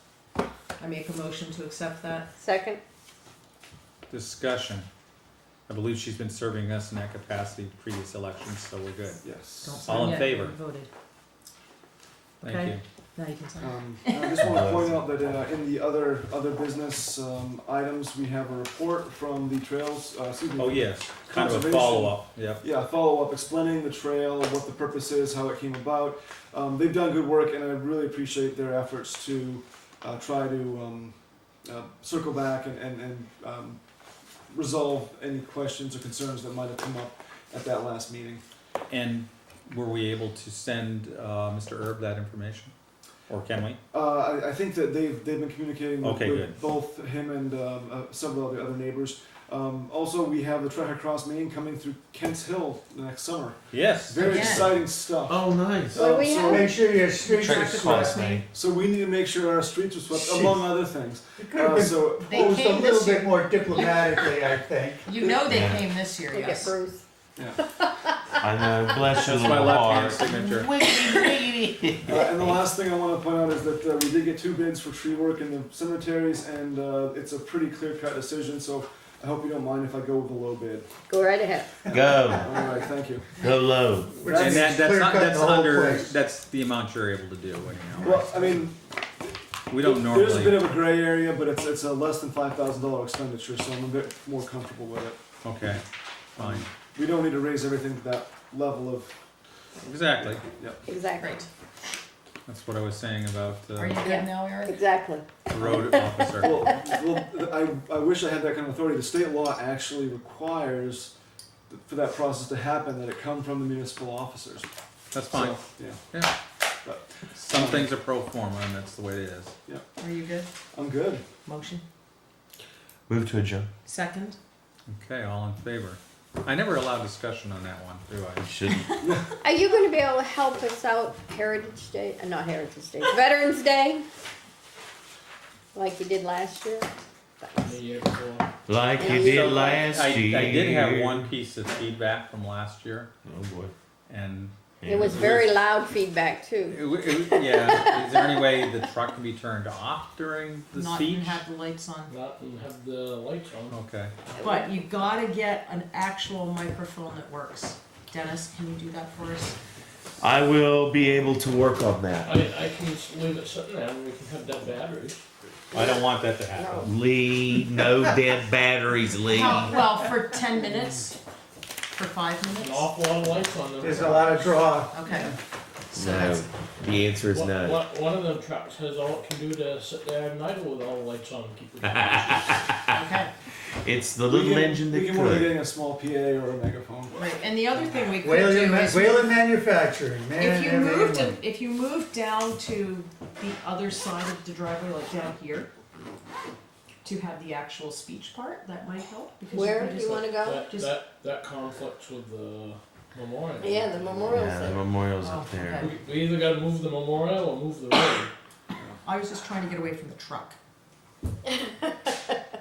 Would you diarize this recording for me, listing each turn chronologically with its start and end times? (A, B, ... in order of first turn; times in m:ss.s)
0:00.8-0:02.3 A
0:02.4-0:02.8 B
0:04.1-0:04.9 C
0:05.7-0:09.2 C
0:09.2-0:10.0 D
0:09.6-0:10.9 A
0:09.8-0:10.6 C
0:12.4-0:12.8 C
0:12.4-0:14.3 A
0:13.6-0:33.8 D
0:14.4-0:15.0 E
0:20.6-0:22.6 C
0:34.5-0:38.4 D
0:38.9-0:42.7 C
0:43.3-0:43.8 C
0:43.9-0:56.7 D
0:46.0-0:46.5 C
0:53.7-0:54.7 C
0:54.2-0:54.7 A
0:54.3-0:54.7 E
0:55.2-0:56.0 E
0:56.0-0:56.7 B
0:56.4-0:58.2 F
0:57.2-0:58.4 A
0:57.4-0:58.4 E
0:58.0-1:02.7 D
1:00.2-1:00.6 E
1:01.4-1:05.1 F
1:02.3-1:04.4 A
1:05.0-1:06.7 A
1:05.4-1:05.8 E
1:06.3-1:07.0 B
1:07.4-1:07.6 D
1:07.8-1:08.1 B
1:08.4-1:12.1 E
1:09.1-1:10.8 C
1:12.0-1:20.9 D
1:21.1-1:22.4 B
1:21.9-1:22.4 E
1:22.4-1:23.3 D
1:23.4-1:24.3 E
1:24.2-1:26.1 F
1:24.2-1:24.7 D
1:24.3-1:28.6 C
1:28.0-1:35.2 D
1:29.7-1:30.6 C
1:35.4-1:35.8 C
1:36.4-1:36.7 C
1:36.4-1:39.2 D
1:39.8-1:40.4 C
1:40.4-1:40.8 D
1:40.8-1:41.4 B
1:41.2-1:41.4 A
1:42.5-1:44.0 C
1:43.8-1:44.8 A
1:44.0-1:46.8 B
1:45.5-1:46.6 C
1:45.6-1:51.1 D
1:51.7-1:54.7 D
1:55.1-1:56.3 C
1:55.3-1:56.0 D
1:56.8-1:57.9 D
1:57.4-1:59.5 C
2:00.0-2:00.5 A
2:00.7-2:01.2 D
2:01.4-2:01.8 A
2:03.1-2:03.7 E
2:03.8-2:04.4 A
2:04.9-2:08.5 C
2:08.4-2:08.9 E
2:09.0-2:09.3 D
2:09.4-2:14.0 B
2:15.7-2:16.9 B
2:17.4-2:17.8 B
2:17.6-2:18.5 G
2:18.7-2:21.3 E
2:19.0-2:19.8 B
2:19.0-2:23.1 C
2:23.2-2:23.7 E
2:24.1-2:24.5 C
2:24.8-2:25.3 E
2:24.8-2:28.9 B
2:26.7-2:31.4 C
2:30.7-2:32.1 A
2:32.1-2:33.8 G
2:33.7-2:34.1 C
2:34.4-2:39.6 A
2:40.2-2:42.3 E
2:42.2-2:45.2 G
2:45.7-2:46.8 B
2:45.7-2:46.9 C
2:46.8-2:49.7 E
2:49.3-2:51.2 A
2:51.9-2:52.9 A
2:52.6-2:54.6 G
2:53.8-2:55.0 F
2:54.9-2:55.3 A
2:55.9-2:56.5 A
2:55.9-2:57.8 E
2:57.2-3:02.8 G
3:02.9-3:03.3 A
3:03.8-3:05.6 E
3:04.2-3:07.2 D
3:07.1-3:09.4 A
3:08.2-3:11.4 F
3:10.4-3:15.7 A
3:17.0-3:21.0 A
3:19.5-3:20.6 B
3:20.4-3:24.3 G
3:23.6-3:24.8 B
3:24.2-3:25.9 E
3:25.2-3:25.9 A
3:25.8-3:28.3 G
3:29.0-3:30.6 A
3:31.4-3:32.1 B